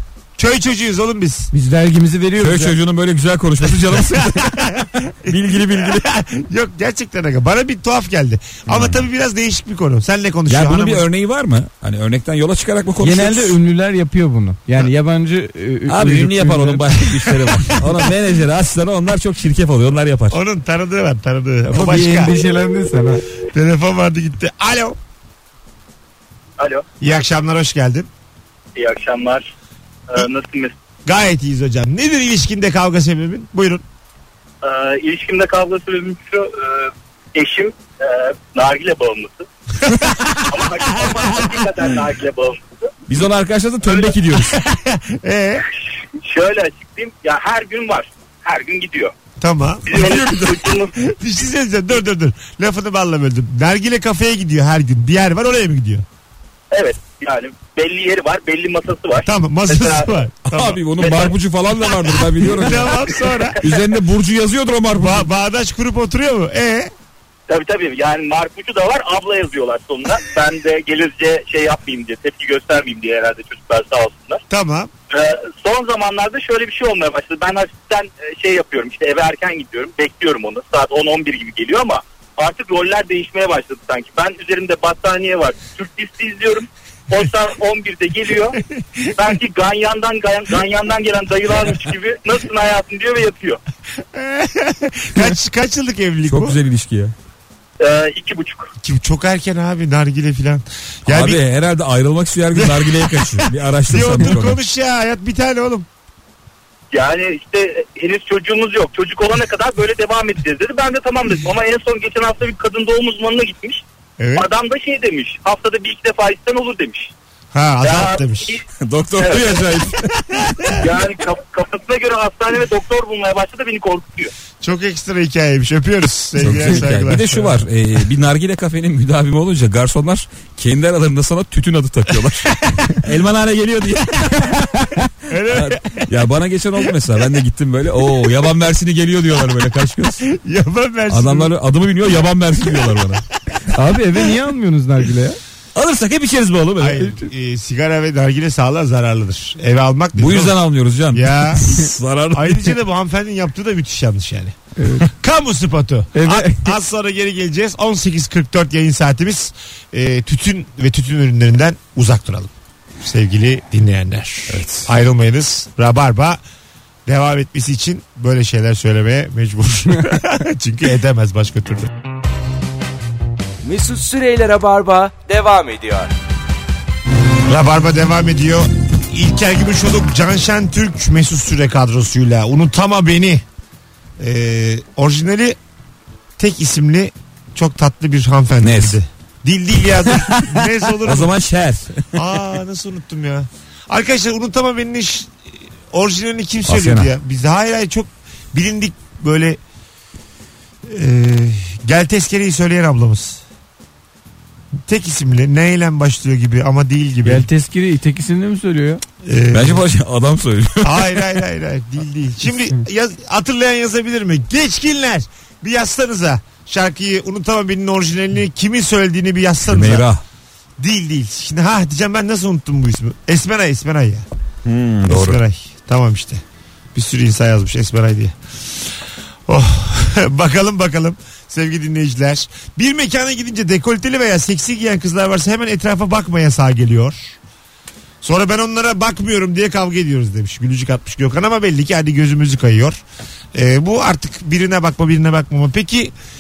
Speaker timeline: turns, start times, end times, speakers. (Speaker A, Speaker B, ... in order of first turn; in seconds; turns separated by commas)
Speaker A: 0.4-1.5, Speaker B: 1.5-2.8, Speaker C: 2.4-4.6, Speaker A: 3.8-11.1, Speaker C: 5.3-6.0, Speaker C: 8.7-9.0, Speaker C: 10.5-13.6, Speaker B: 13.0-16.9, Speaker C: 15.9-20.4, Speaker A: 20.3-22.4, Speaker B: 21.7-23.2, Speaker A: 23.5-25.0, Speaker D: 26.6-26.9, Speaker A: 27.0-28.1, Speaker D: 28.8-29.5, Speaker D: 30.1-30.8, Speaker A: 31.1-33.8, Speaker D: 34.6-39.5, Speaker A: 39.9-40.7, Speaker D: 40.5-42.9, Speaker C: 43.1-44.6, Speaker D: 43.8-44.2, Speaker A: 44.5-45.6, Speaker D: 46.2-49.1, Speaker A: 49.4-50.0, Speaker D: 49.9-50.9, Speaker C: 49.9-50.7, Speaker A: 51.0-56.0, Speaker D: 56.7-60.2, Speaker A: 59.2-60.9, Speaker C: 60.5-63.1, Speaker D: 60.9-62.1, Speaker A: 62.4-63.6, Speaker C: 63.6-65.3, Speaker A: 65.0-66.9, Speaker D: 67.5-74.4, Speaker A: 74.5-74.9, Speaker D: 75.1-88.6, Speaker D: 89.2-93.6, Speaker A: 94.1-96.6, Speaker C: 96.3-97.1, Speaker D: 97.8-98.7, Speaker A: 98.8-101.4, Speaker C: 101.1-104.6, Speaker A: 102.5-105.9, Speaker D: 106.9-113.8, Speaker A: 114.2-114.5, Speaker D: 114.4-117.1, Speaker A: 117.5-118.6, Speaker D: 117.8-118.6, Speaker C: 118.7-120.0, Speaker D: 119.2-119.7, Speaker A: 120.5-120.7, Speaker D: 120.8-124.3, Speaker A: 124.6-127.6, Speaker C: 126.4-135.0, Speaker A: 135.3-136.1, Speaker C: 135.5-140.2, Speaker A: 140.3-141.5, Speaker C: 141.1-143.2, Speaker A: 142.7-143.0, Speaker B: 143.7-145.4, Speaker C: 145.8-147.1, Speaker A: 146.8-166.4, Speaker C: 150.2-152.8, Speaker B: 154.8-155.1, Speaker B: 156.2-156.8, Speaker C: 164.5-164.9, Speaker A: 167.1-171.9, Speaker E: 173.6-176.1, Speaker A: 177.5-183.4, Speaker A: 184.2-185.6, Speaker A: 186.4-191.3, Speaker C: 188.6-189.0, Speaker C: 190.3-192.2, Speaker A: 192.2-195.4, Speaker A: 195.9-199.6, Speaker C: 196.7-197.1, Speaker A: 200.9-203.4, Speaker A: 204.9-207.5, Speaker B: 207.2-209.0, Speaker A: 209.2-209.8, Speaker C: 209.5-211.3, Speaker A: 210.8-220.1, Speaker C: 219.7-220.2, Speaker A: 220.8-224.3, Speaker C: 224.7-225.4, Speaker A: 225.1-226.4, Speaker A: 226.9-228.4, Speaker A: 229.5-237.4, Speaker A: 238.2-243.0, Speaker A: 243.5-246.1